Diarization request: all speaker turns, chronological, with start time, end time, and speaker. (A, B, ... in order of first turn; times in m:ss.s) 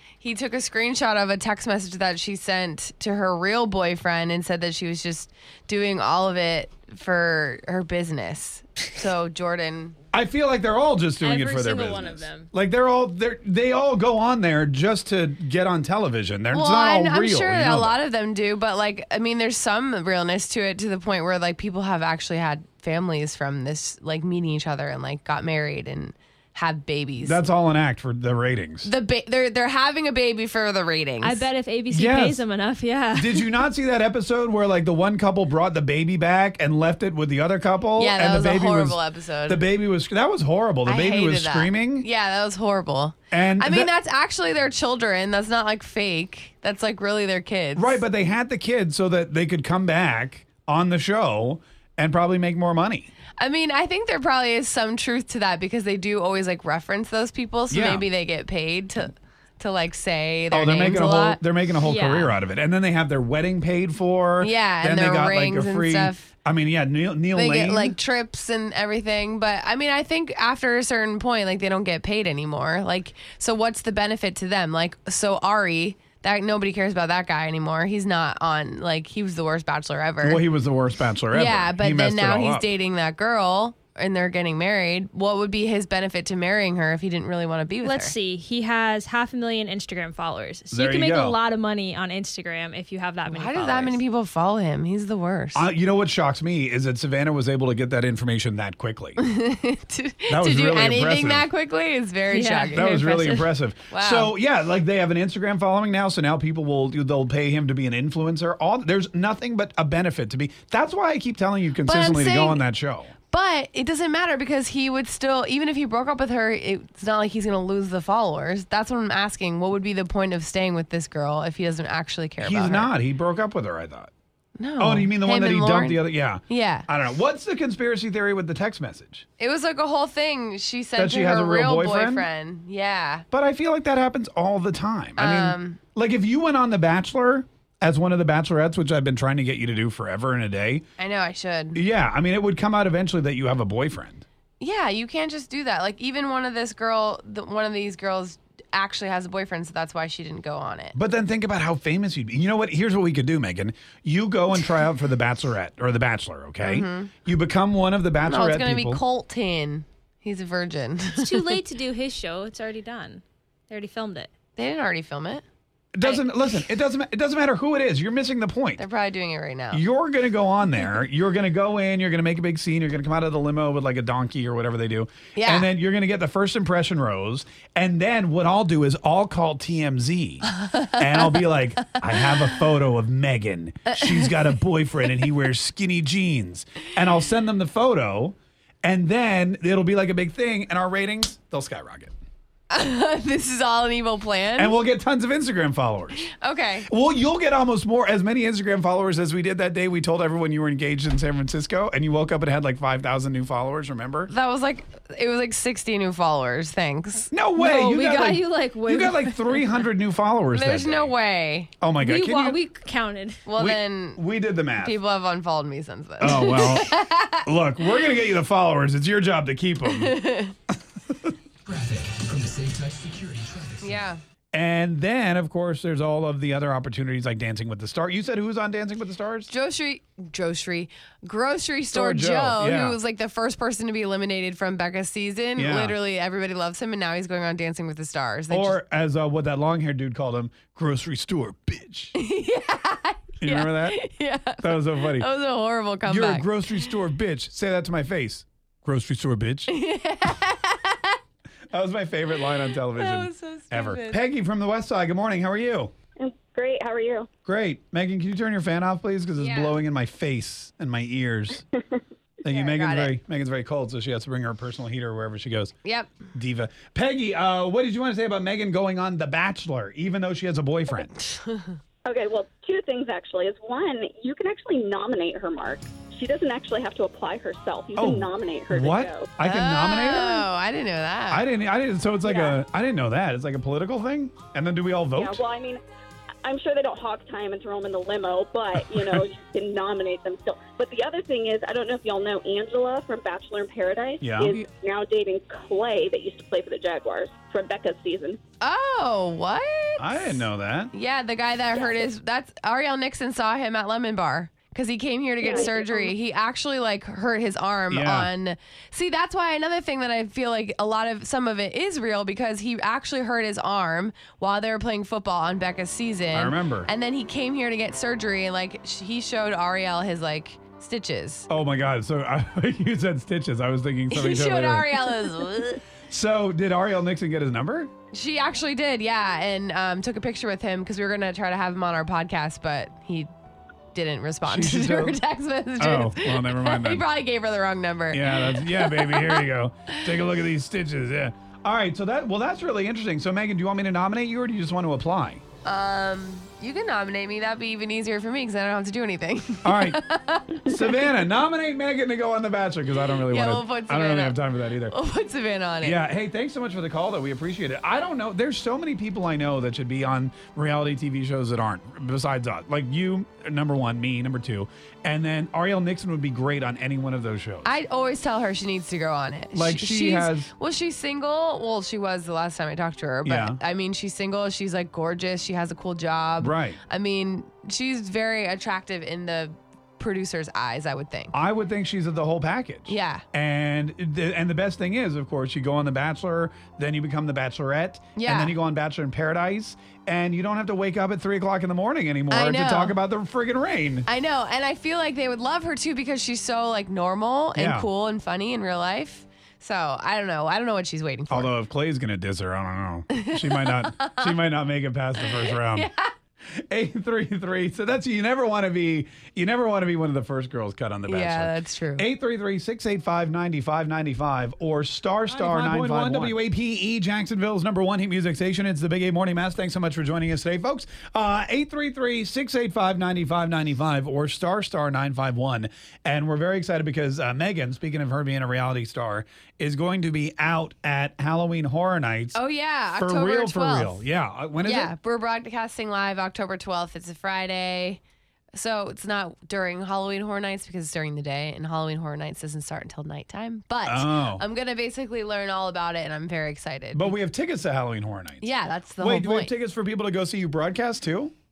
0:00.2-0:10.0 A
0:10.1-0:18.0 B
0:11.2-0:12.5 C
0:16.5-0:27.4 A
0:27.2-0:28.9 B
0:28.8-0:31.5 A
0:31.2-0:33.6 C
0:31.9-0:32.4 B
0:33.1-0:42.1 B
0:38.0-0:39.6 A
0:40.8-0:48.0 A
0:43.3-0:43.9 B
0:47.7-0:53.1 B
0:53.4-1:01.4 A
0:57.7-0:58.1 B
1:00.5-1:08.0 B
1:01.8-1:02.3 C
1:04.4-1:06.3 A
1:07.3-1:20.5 A
1:20.2-1:22.7 B
1:21.3-1:28.1 A
1:27.8-1:34.0 C
1:30.7-1:31.4 B
1:33.2-1:35.7 A
1:35.5-1:39.2 B
1:39.2-1:44.4 A
1:40.3-1:41.5 B
1:42.3-1:43.4 C
1:42.7-1:53.1 B
1:51.8-1:52.6 A
1:53.3-2:02.9 A
2:02.4-2:04.1 B
2:04.6-2:06.9 A
2:04.8-2:09.2 B
2:09.4-2:13.2 A
2:11.0-2:12.2 B
2:13.3-2:20.9 B
2:15.2-2:15.8 A
2:21.0-2:21.8 A
2:21.7-2:24.2 B
2:24.6-2:30.9 A
2:30.9-2:39.0 B
2:36.6-2:37.1 A
2:38.2-2:41.6 A
2:41.2-2:44.3 C
2:44.6-2:45.4 A
2:45.9-2:48.8 B
2:48.8-2:49.8 A
2:49.7-3:12.1 B
2:55.4-2:55.7 A
3:03.9-3:04.6 A
3:12.7-3:14.8 A
3:14.6-3:16.3 B
3:16.3-3:16.9 A
3:16.9-3:24.3 B
3:24.3-3:27.3 A
3:27.3-3:31.1 B
3:27.6-3:29.6 C
3:30.5-3:31.7 A
3:31.8-3:32.6 B
3:32.0-3:33.4 C
3:33.4-3:37.5 A
3:33.6-3:35.0 B
3:36.2-3:40.2 B
3:39.8-3:40.5 A
3:41.8-3:44.0 D
3:43.8-3:44.2 A
3:44.5-3:49.5 B
3:49.5-3:58.8 A
3:51.9-3:53.0 B
3:55.6-3:56.0 B
3:58.5-4:02.1 B
4:02.1-4:07.0 A
4:03.4-4:04.0 B
4:04.6-4:05.3 B
4:06.0-4:09.7 B
4:09.7-4:11.2 A
4:11.7-4:15.9 B
4:12.5-4:14.2 A
4:16.2-4:17.3 E
4:17.4-4:21.6 B
4:19.4-4:19.8 A
4:22.4-4:25.7 B
4:22.5-4:23.1 A
4:25.8-4:26.2 A
4:26.3-4:31.2 B
4:31.3-4:31.7 A
4:32.0-4:39.3 E
4:38.0-4:40.5 B
4:39.4-4:41.5 A
4:41.3-4:45.4 B
4:42.2-4:42.5 A
4:45.2-4:45.8 E
4:46.4-4:58.4 E
4:48.9-4:49.2 B
4:54.2-4:54.6 B
4:58.6-5:21.5 A
5:00.0-5:00.9 B
5:05.4-5:06.1 E
5:07.9-5:08.3 B
5:16.3-5:16.9 B
5:21.5-5:25.1 B
5:24.1-5:25.8 A
5:26.1-5:27.9 B
5:28.1-5:33.3 A
5:33.9-5:39.9 A
5:34.4-5:35.2 B
5:35.8-5:37.1 B
5:38.1-5:45.4 B
5:45.6-5:51.0 A
5:49.6-5:50.0 B
5:50.6-5:54.9 B
5:53.0-5:56.1 A
5:55.8-6:07.7 B
6:07.6-6:21.4 A
6:09.5-6:10.5 B
6:13.2-6:13.6 B
6:16.4-6:16.8 B
6:21.3-6:34.1 B
6:22.8-6:23.2 A
6:28.2-6:28.6 A
6:32.3-6:33.0 A
6:34.1-6:41.5 A
6:37.5-6:37.9 B
6:41.3-6:45.9 B
6:43.1-6:44.4 A
6:45.2-6:46.1 A
6:46.4-7:12.4 B
6:51.1-6:52.1 A
6:55.3-6:56.3 C
7:12.3-7:14.0 A
7:13.0-7:14.9 B
7:14.6-7:18.0 A
7:18.5-7:27.1 A
7:23.8-7:24.4 B
7:26.9-7:31.3 B
7:28.4-7:29.5 A